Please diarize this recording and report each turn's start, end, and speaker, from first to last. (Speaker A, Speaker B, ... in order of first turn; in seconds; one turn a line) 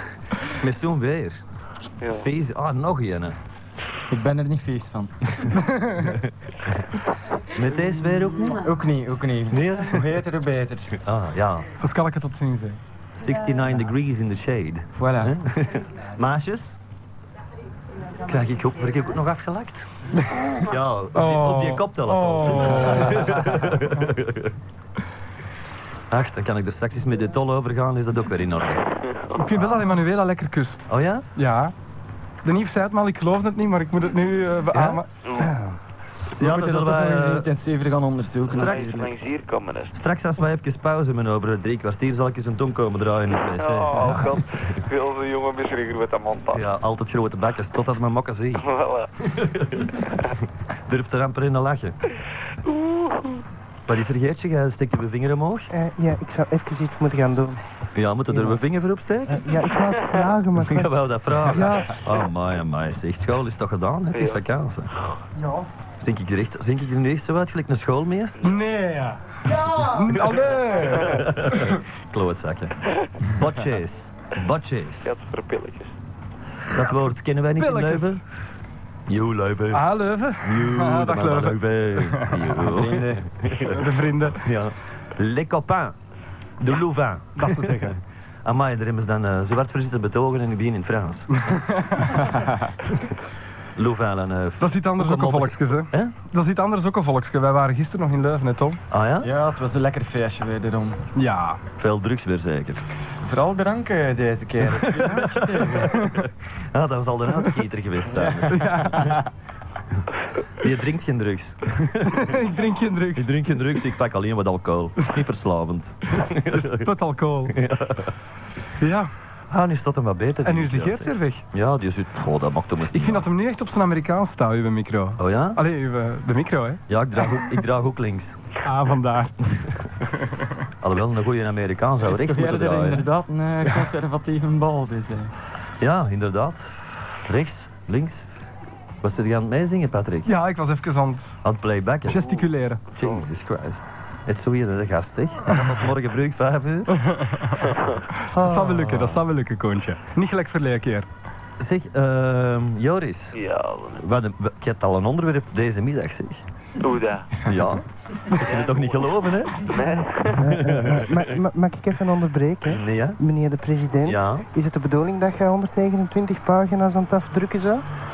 Speaker A: 0.4-1.4
Speaker B: 2.0-2.3
Speaker A: 2.2-3.4
Speaker C: 4.1-5.7
Speaker D: 5.8-6.1
Speaker A: 7.5-8.7
Speaker C: 8.6-11.0
Speaker A: 9.5-10.1
Speaker A: 11.0-11.7
Speaker D: 11.8-12.8
Speaker A: 13.2-16.8
Speaker C: 14.9-15.4
Speaker A: 18.2-19.9
Speaker A: 20.5-24.6
Speaker D: 21.1-23.6
Speaker A: 26.1-28.9
Speaker B: 29.1-29.3
Speaker D: 29.4-31.7
Speaker A: 29.6-29.9
Speaker A: 30.9-31.2
Speaker D: 32.4-35.8
Speaker A: 34.7-35.0
Speaker A: 36.3-37.5
Speaker C: 36.3-39.1
Speaker A: 38.4-39.0
Speaker B: 38.5-40.0
Speaker A: 39.9-44.4
Speaker B: 43.5-46.7
Speaker A: 46.5-48.6
Speaker B: 48.6-49.1
Speaker A: 49.4-50.0
Speaker A: 50.9-52.0
Speaker B: 52.6-53.4
Speaker A: 53.9-55.7
Speaker E: 55.7-57.6
Speaker A: 58.0-59.4
Speaker E: 58.3-58.6
Speaker E: 59.3-62.0
Speaker A: 60.6-64.9
Speaker B: 64.1-64.4
Speaker E: 65.3-65.7
Speaker A: 66.0-68.5
Speaker D: 68.4-71.7
Speaker E: 69.5-70.2
Speaker A: 70.1-75.1
Speaker B: 75.0-76.0
Speaker A: 76.7-78.2
Speaker D: 77.6-78.2
Speaker A: 79.1-79.9
Speaker D: 79.7-82.5
Speaker A: 80.4-86.0
Speaker C: 82.6-83.3
Speaker D: 83.6-84.5
Speaker A: 86.6-87.9
Speaker D: 87.4-88.0
Speaker A: 88.5-91.4
Speaker D: 91.3-92.3
Speaker A: 93.8-96.1
Speaker D: 94.6-98.8
Speaker A: 98.9-99.3
Speaker C: 99.2-101.0
Speaker D: 101.2-101.6
Speaker A: 101.8-102.8
Speaker C: 103.2-106.1
Speaker D: 104.9-105.2
Speaker A: 105.2-106.1
Speaker D: 105.8-106.2
Speaker A: 106.6-109.2
Speaker C: 108.1-109.2
Speaker D: 108.5-109.2
Speaker A: 110.6-112.2
Speaker D: 112.0-113.3
Speaker A: 113.2-116.8
Speaker D: 116.5-117.5
Speaker A: 117.5-118.1
Speaker D: 118.8-119.1
Speaker A: 119.5-123.3
Speaker D: 120.4-121.4
Speaker D: 122.9-127.5
Speaker A: 125.2-125.6
Speaker A: 126.9-128.5
Speaker D: 128.6-129.5
Speaker D: 130.1-130.4
Speaker A: 130.8-133.1
Speaker C: 132.0-135.3
Speaker D: 133.7-133.9
Speaker A: 135.8-138.3
Speaker A: 139.0-140.3
Speaker D: 140.2-141.4
Speaker A: 141.4-142.3
Speaker D: 142.1-142.8
Speaker A: 142.9-147.1
Speaker D: 147.0-151.1
Speaker A: 148.3-149.2
Speaker A: 151.6-153.4
Speaker B: 153.3-154.1
Speaker A: 154.0-156.4
Speaker B: 156.8-157.4
Speaker A: 157.4-159.7
Speaker B: 158.3-160.6
Speaker E: 160.4-167.8
Speaker A: 160.5-161.2
Speaker A: 162.7-163.2
Speaker A: 164.0-164.5